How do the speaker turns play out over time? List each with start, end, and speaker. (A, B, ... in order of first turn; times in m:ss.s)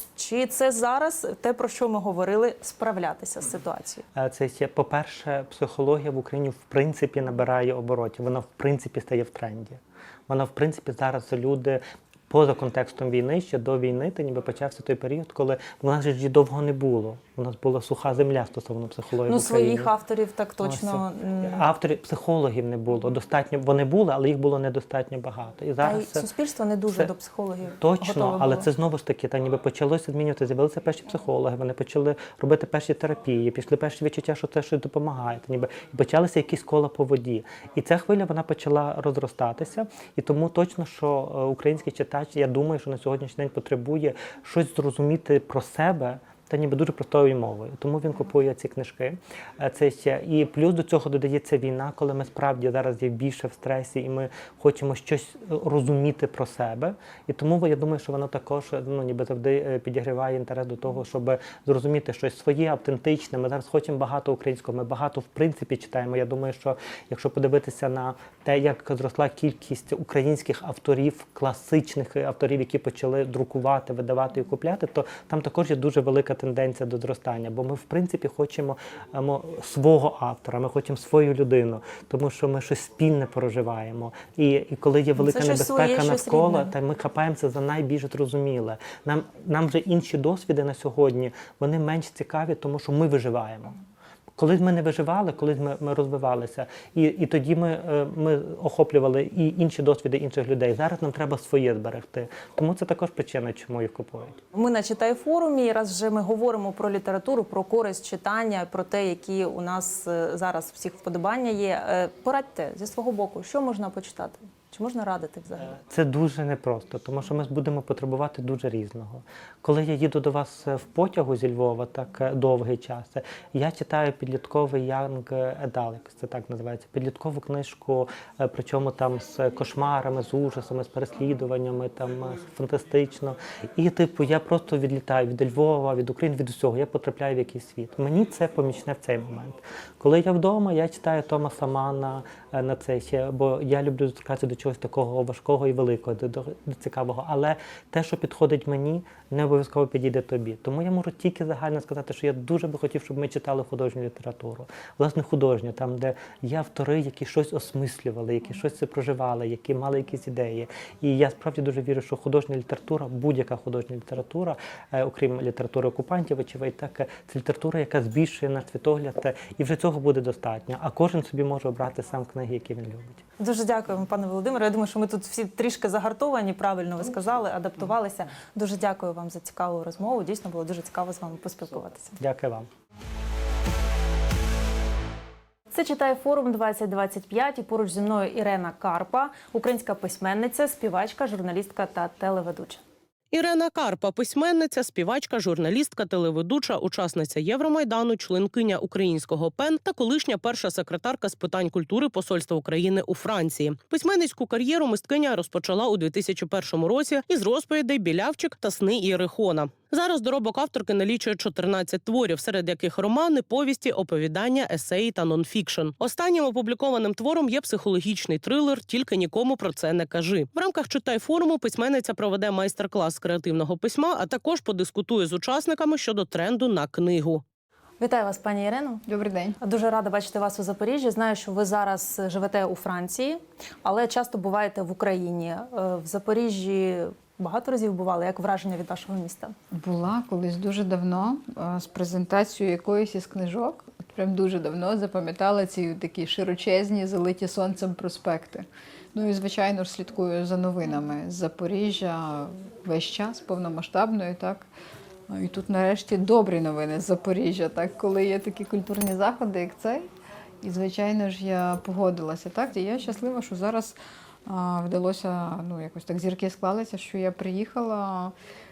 0:00.2-0:04.0 A
0:04.2-0:19.9 B
0:19.3-0:21.6 A
0:20.6-0:26.3 B
0:25.8-0:28.7 A
0:27.8-1:33.8 B
1:25.2-1:26.7 A
1:34.4-1:44.4 B
1:44.5-1:55.8 A
1:55.7-2:53.2 B
2:53.4-3:02.2 A
3:02.2-3:02.7 B
3:05.7-3:12.8 A
3:13.3-3:47.4 C
3:48.0-3:49.0 A
3:49.1-3:49.6 D
3:49.6-3:59.6 A
3:59.7-4:14.7 D
4:15.3-4:20.1 D
4:20.6-4:24.0 D
4:24.5-4:28.3 D